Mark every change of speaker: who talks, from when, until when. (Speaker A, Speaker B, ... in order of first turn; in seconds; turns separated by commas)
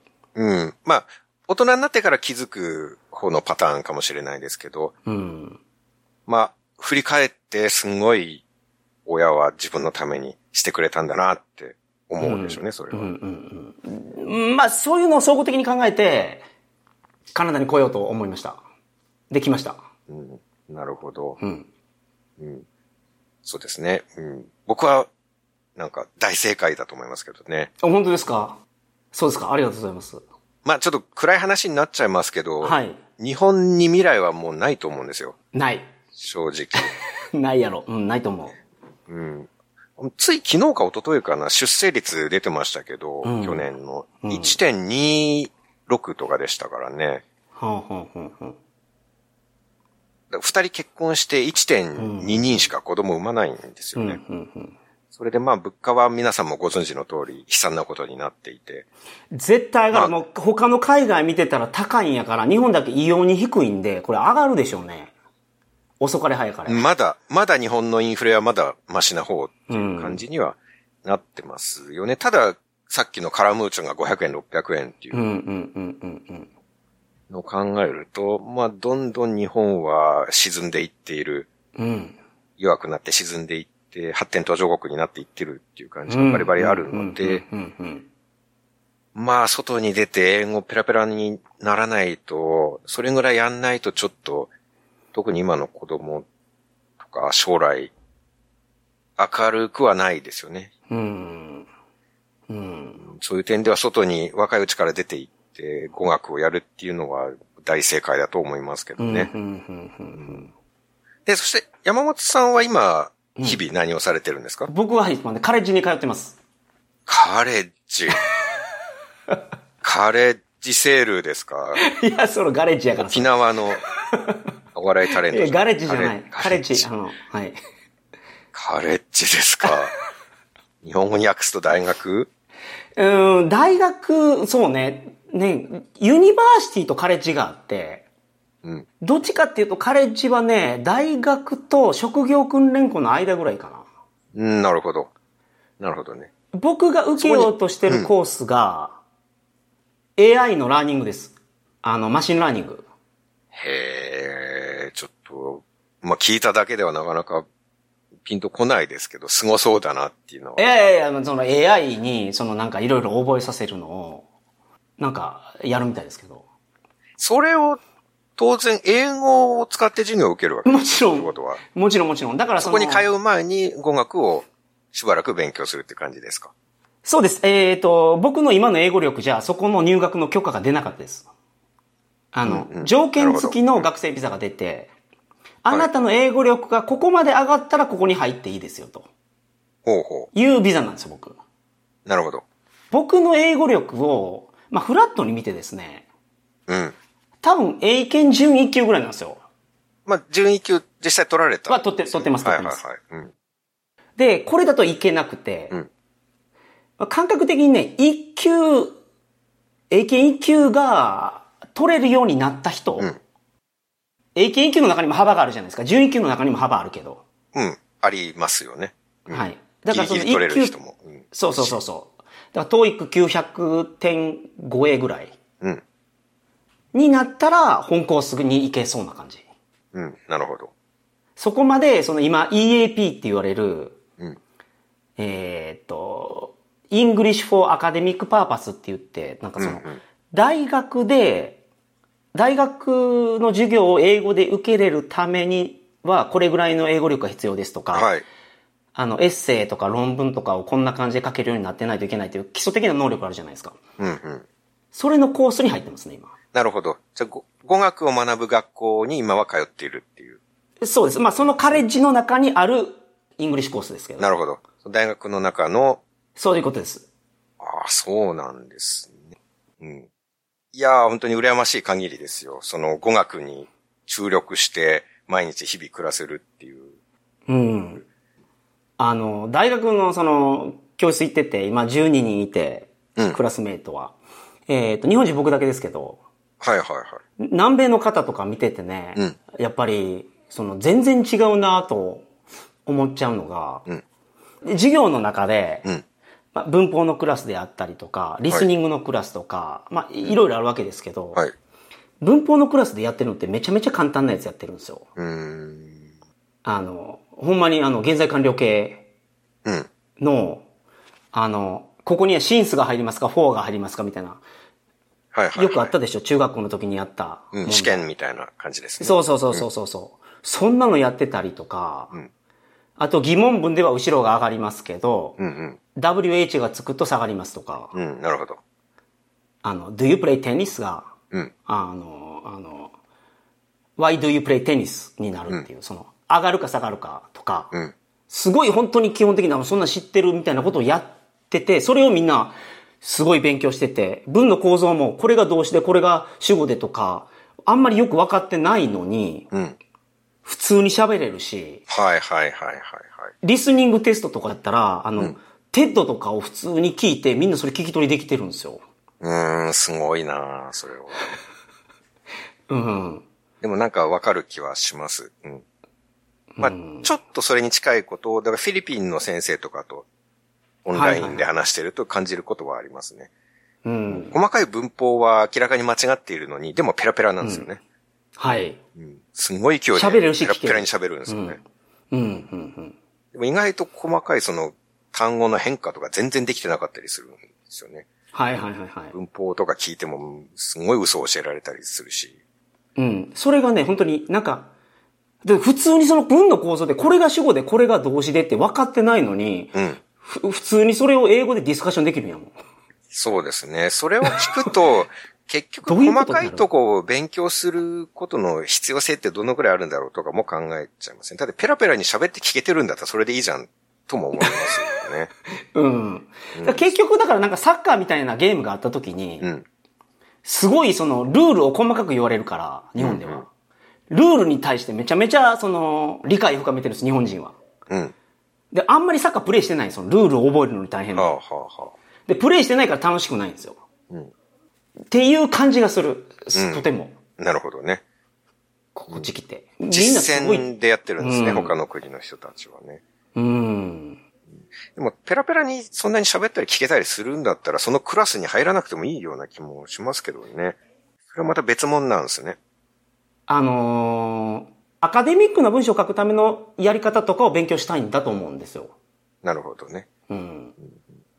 Speaker A: 0.4-4.9, Speaker B: 5.1-5.6, Speaker A: 6.3-8.4, Speaker A: 9.1-13.1, Speaker B: 12.2-16.4, Speaker B: 17.3-18.6, Speaker B: 19.3-19.8, Speaker A: 20.1-21.4, Speaker B: 21.4-21.7, Speaker A: 22.4-22.6, Speaker A: 23.4-25.1, Speaker A: 25.8-27.7, Speaker B: 27.8-28.6, Speaker B: 29.1-30.2, Speaker A: 30.6-35.4, Speaker B: 32.6-33.0, Speaker B: 35.5-35.9, Speaker A: 36.1-36.9, Speaker B: 36.8-38.6, Speaker A: 39.1-47.2, Speaker B: 43.2-43.7, Speaker B: 44.2-44.6, Speaker B: 47.6-48.6, Speaker A: 50.3-54.2, Speaker B: 52.0-52.6, Speaker B: 54.0-54.8, Speaker A: 55.1-58.9, Speaker B: 59.3-65.1, Speaker A: 59.9-60.2, Speaker B: 66.0-66.9, Speaker A: 66.7-75.2, Speaker B: 69.7-70.2, Speaker B: 75.1-76.5, Speaker A: 77.3-81.5, Speaker B: 81.8-82.2, Speaker A: 82.6-87.4, Speaker B: 86.1-88.1, Speaker A: 89.1-94.5, Speaker A: 95.1-96.3, Speaker A: 97.0-97.9, Speaker A: 99.2-100.7, Speaker B: 100.9-101.7, Speaker B: 102.5-103.0, Speaker A: 103.0-109.3, Speaker B: 109.0-110.5, Speaker A: 111.2-114.7, Speaker B: 114.7-116.4, Speaker A: 117.1-118.2, Speaker A: 119.8-121.8, Speaker B: 121.8-124.4, Speaker A: 123.0-123.8, Speaker A: 124.8-126.9, Speaker B: 125.2-127.6, Speaker A: 128.5-129.9, Speaker A: 130.8-132.3, Speaker B: 133.0-138.1, Speaker B: 139.0-143.9, Speaker A: 144.3-145.1, Speaker A: 145.8-146.3, Speaker B: 146.6-149.0, Speaker A: 147.2-148.1, Speaker B: 150.2-152.9, Speaker A: 153.5-157.4, Speaker A: 158.2-160.6, Speaker B: 160.6-164.3, Speaker B: 165.0-166.4, Speaker A: 167.2-167.8, Speaker A: 168.4-171.6, Speaker B: 170.6-173.1, Speaker A: 172.6-176.5, Speaker B: 177.0-181.3, Speaker B: 182.3-184.9, Speaker A: 182.5-183.9, Speaker B: 185.6-189.1, Speaker A: 189.8-190.3, Speaker B: 190.3-191.4, Speaker A: 192.1-192.4, Speaker B: 192.9-196.0, Speaker A: 196.7-196.9, Speaker B: 197.4-199.4, Speaker A: 200.1-203.3, Speaker B: 201.7-202.8, Speaker B: 204.2-205.8, Speaker B: 207.0-209.0, Speaker B: 209.9-213.1, Speaker B: 214.3-217.2, Speaker A: 217.5-221.8, Speaker B: 219.3-220.8, Speaker B: 221.3-225.3, Speaker B: 226.9-229.4, Speaker A: 229.9-230.7, Speaker B: 231.4-234.0, Speaker B: 235.2-241.6, Speaker A: 239.6-240.0, Speaker B: 242.3-248.1, Speaker A: 247.9-248.2, Speaker B: 248.9-253.8, Speaker A: 254.0-254.4, Speaker B: 254.9-256.3, Speaker A: 256.5-260.4, Speaker B: 260.8-264.3, Speaker A: 261.4-261.8, Speaker A: 264.2-266.0, Speaker B: 266.4-267.1, Speaker A: 267.6-269.1, Speaker A: 269.8-270.1, Speaker A: 270.7-276.9, Speaker B: 277.5-278.0, Speaker B: 279.0-284.1, Speaker B: 284.7-286.2, Speaker A: 286.6-287.2, Speaker B: 287.4-292.2, Speaker B: 292.9-293.9, Speaker B: 294.6-295.9, Speaker B: 296.5-301.4, Speaker B: 302.2-305.1, Speaker A: 305.2-306.0, Speaker B: 306.6-309.0, Speaker B: 310.2-310.6, Speaker B: 311.3-314.4, Speaker A: 315.3-315.9, Speaker B: 315.5-318.1, Speaker A: 317.5-319.6, Speaker B: 319.0-322.1, Speaker B: 323.0-325.4, Speaker A: 325.4-325.8, Speaker B: 326.0-327.9, Speaker A: 327.9-328.6, Speaker B: 329.6-331.1, Speaker B: 331.6-332.9, Speaker B: 334.0-337.7, Speaker B: 338.3-349.5, Speaker B: 350.4-351.8, Speaker A: 351.9-353.3, Speaker B: 353.4-358.8, Speaker A: 359.2-361.3, Speaker B: 362.7-363.2, Speaker A: 363.6-365.6, Speaker B: 366.6-367.1, Speaker A: 366.6-370.1, Speaker A: 370.9-373.3, Speaker B: 370.9-371.5, Speaker B: 373.8-374.4, Speaker A: 374.1-377.8, Speaker B: 377.4-377.7, Speaker B: 378.4-378.8, Speaker A: 379.0-381.6, Speaker B: 379.9-383.0, Speaker A: 383.3-388.1, Speaker B: 388.3-389.1, Speaker A: 389.1-392.4, Speaker B: 393.0-394.7, Speaker B: 395.4-402.5, Speaker A: 399.7-400.0, Speaker A: 403.1-415.3, Speaker B: 404.2-404.7, Speaker B: 405.9-406.6, Speaker B: 414.4-414.8, Speaker B: 415.7-419.5, Speaker A: 416.5-416.9, Speaker A: 419.4-419.6, Speaker B: 420.4-423.5, Speaker A: 423.0-423.4, Speaker B: 424.1-427.6, Speaker A: 427.9-428.1, Speaker B: 428.7-431.3, Speaker A: 431.1-431.9, Speaker B: 432.3-433.8, Speaker B: 435.1-437.1, Speaker A: 436.5-436.8, Speaker A: 437.4-438.0, Speaker B: 438.9-440.7, Speaker A: 439.9-443.0, Speaker B: 441.2-441.8, Speaker B: 443.4-444.2, Speaker A: 444.9-450.8, Speaker A: 451.3-452.6, Speaker B: 453.5-458.9, Speaker A: 459.4-460.1, Speaker B: 460.3-460.8